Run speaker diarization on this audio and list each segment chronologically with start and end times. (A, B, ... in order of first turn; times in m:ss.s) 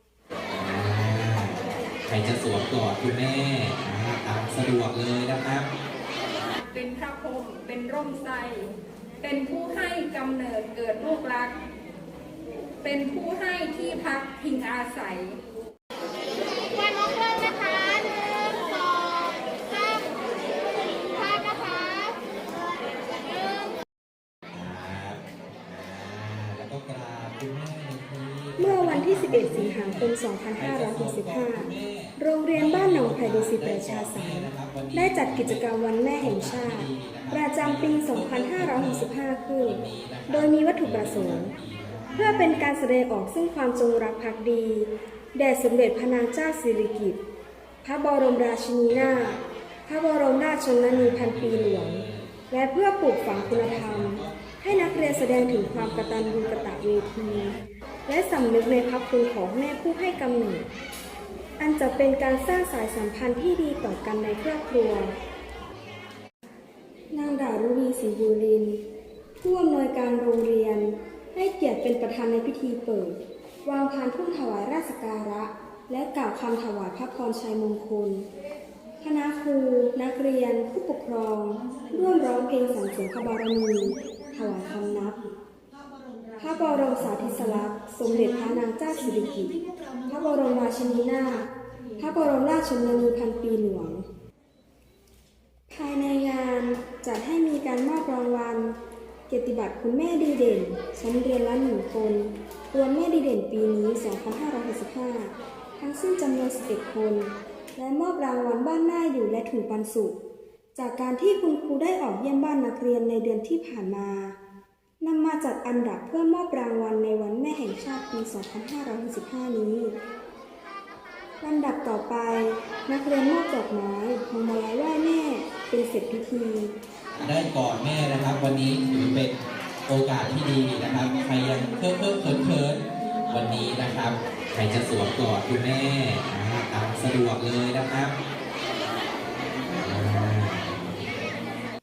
0:00.5-0:05.7 A
0:06.6-0:11.6 B
0:12.8-0:15.4 B
0:24.5-0:42.7 A
0:28.6-0:41.5 C
0:42.2-0:47.2 C
0:47.8-1:00.7 C
0:48.9-0:49.5 A
0:50.9-0:52.4 A
0:53.3-0:57.6 A
1:01.6-1:05.2 C
1:07.1-1:08.8 C
1:09.4-1:18.3 C
1:19.0-1:25.3 C
1:26.4-1:34.1 C
1:35.7-1:38.8 C
1:39.3-1:50.2 C
1:50.8-1:54.4 C
1:55.0-2:00.0 C
2:01.4-2:06.7 C
2:07.1-2:18.2 A
2:19.8-2:21.0 A